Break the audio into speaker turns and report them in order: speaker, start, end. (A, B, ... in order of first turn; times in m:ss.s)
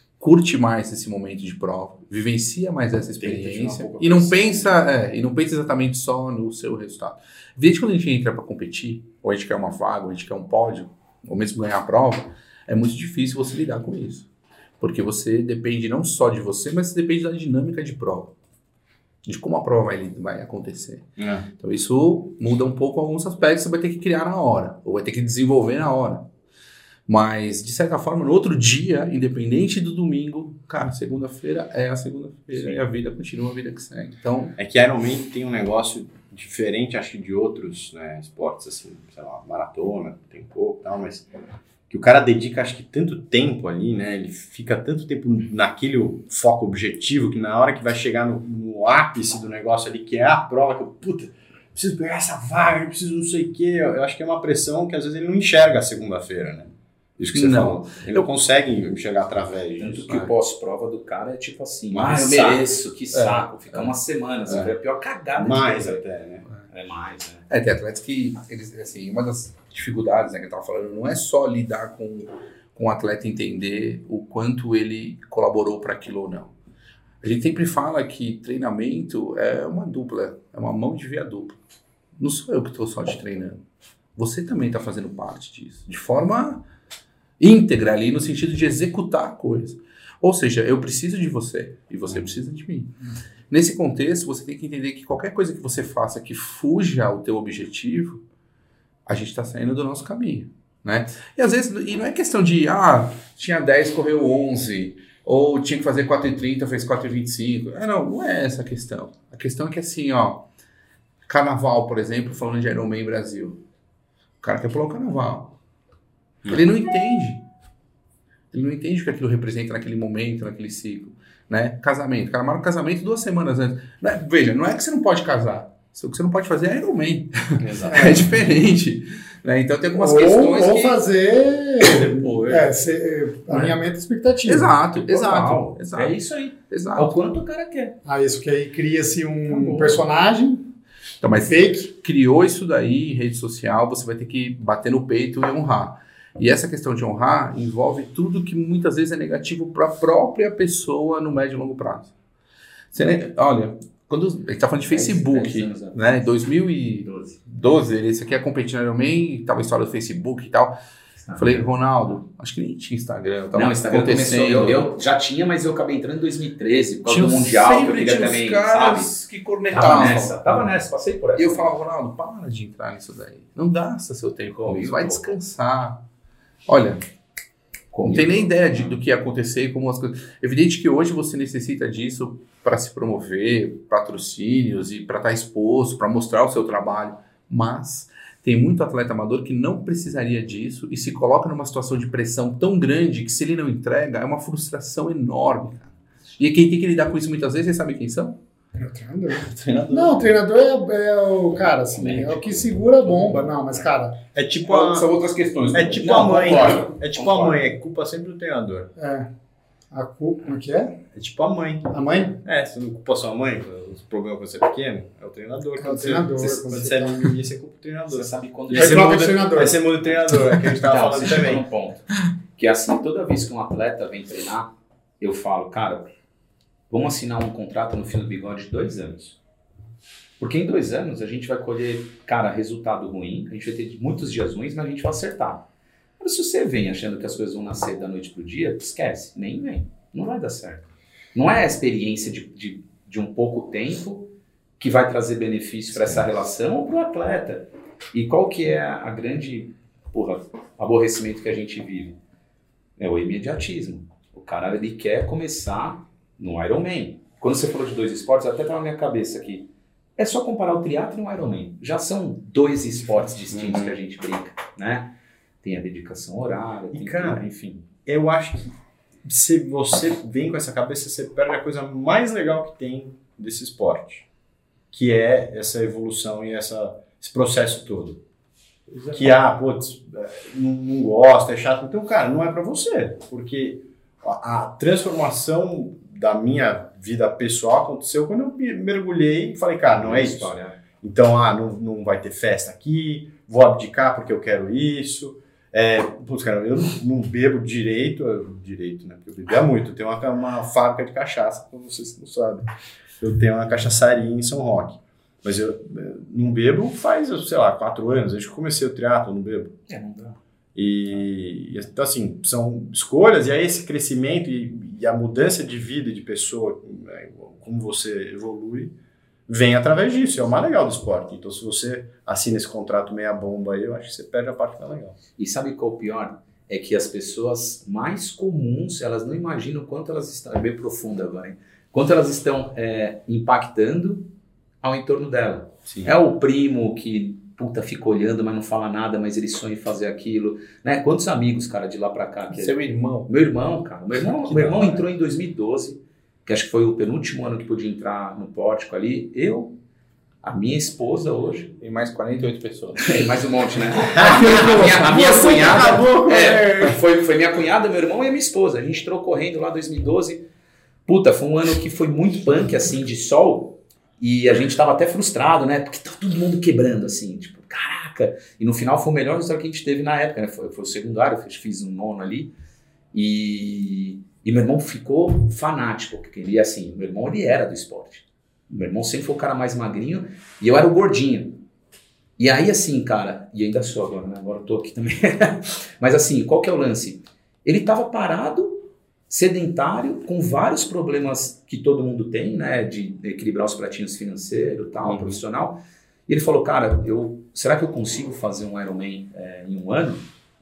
0:00.2-0:14.3 A
0:03.2-0:04.8 B
0:14.8-0:18.3 A
0:19.2-0:21.1 A
0:21.2-0:21.5 B
0:21.6-0:26.3 A
0:27.1-0:34.6 A
0:34.6-0:41.4 B
0:41.9-1:00.1 B
0:57.3-0:58.3 A
0:59.8-1:06.0 C
1:00.0-1:00.3 A
1:01.9-1:03.9 A
1:05.4-1:06.5 B
1:06.7-1:07.5 C
1:07.5-1:16.5 A
1:17.2-1:21.6 A
1:22.2-1:23.6 A
1:24.2-1:26.6 A
1:27.4-1:32.9 A
1:33.5-1:38.2 A
1:39.1-1:50.5 A
1:51.3-1:53.6 A
1:54.4-1:55.6 A
1:56.5-1:57.4 A
1:58.5-2:11.0 A
2:07.6-2:08.2 C
2:07.9-2:08.2 D
2:10.0-2:14.8 D
2:11.8-2:12.6 A
2:13.5-2:13.8 A
2:14.4-2:16.2 A
2:15.1-2:18.0 C
2:16.7-2:17.1 A
2:18.0-2:20.7 D
2:19.5-2:20.0 C
2:21.2-2:32.1 A
2:21.4-2:21.9 D
2:32.9-2:40.8 A
2:34.9-2:36.0 C
2:37.0-2:37.4 C
2:41.2-2:41.7 C
2:41.4-2:44.9 A
2:43.5-2:49.1 C
2:47.1-2:50.7 A
2:49.7-2:51.8 C
2:51.4-2:56.0 A
2:54.5-2:55.3 C
2:56.7-2:57.0 A
2:57.9-2:59.0 C
2:58.0-3:18.4 A
3:18.8-3:24.2 D
3:19.3-3:20.4 A
3:22.0-3:23.5 C
3:24.3-3:25.1 B
3:24.6-3:26.8 A
3:25.7-3:28.9 B
3:26.0-3:27.7 C
3:29.0-3:29.3 D
3:29.9-3:31.0 D
3:31.2-3:31.9 B
3:31.9-3:32.4 D
3:32.4-3:41.6 B
3:35.8-3:37.3 D
3:38.1-3:39.2 C
3:38.7-3:39.8 D
3:40.1-3:46.1 C
3:46.9-3:49.4 C
3:50.4-3:55.7 C
3:56.2-4:12.2 C
4:13.0-4:27.9 C
4:23.5-4:23.9 B
4:26.9-4:34.2 B
4:34.9-4:38.2 B
4:38.9-5:02.7 B
4:50.0-4:50.8 C
5:03.2-5:09.8 B
5:09.9-5:10.4 C
5:10.8-5:18.9 B
5:19.5-5:25.2 B
5:25.4-5:34.3 C
5:34.8-5:49.8 C
5:35.9-5:36.1 B
5:42.5-5:43.3 A
5:44.4-5:45.0 B
5:50.4-5:51.7 C
5:51.8-5:53.2 A
5:53.0-6:00.4 C
5:54.1-5:57.0 B
5:54.2-5:55.1 D
6:01.1-6:12.5 C
6:13.1-6:21.6 C
6:22.4-6:40.2 C
6:35.0-6:35.4 B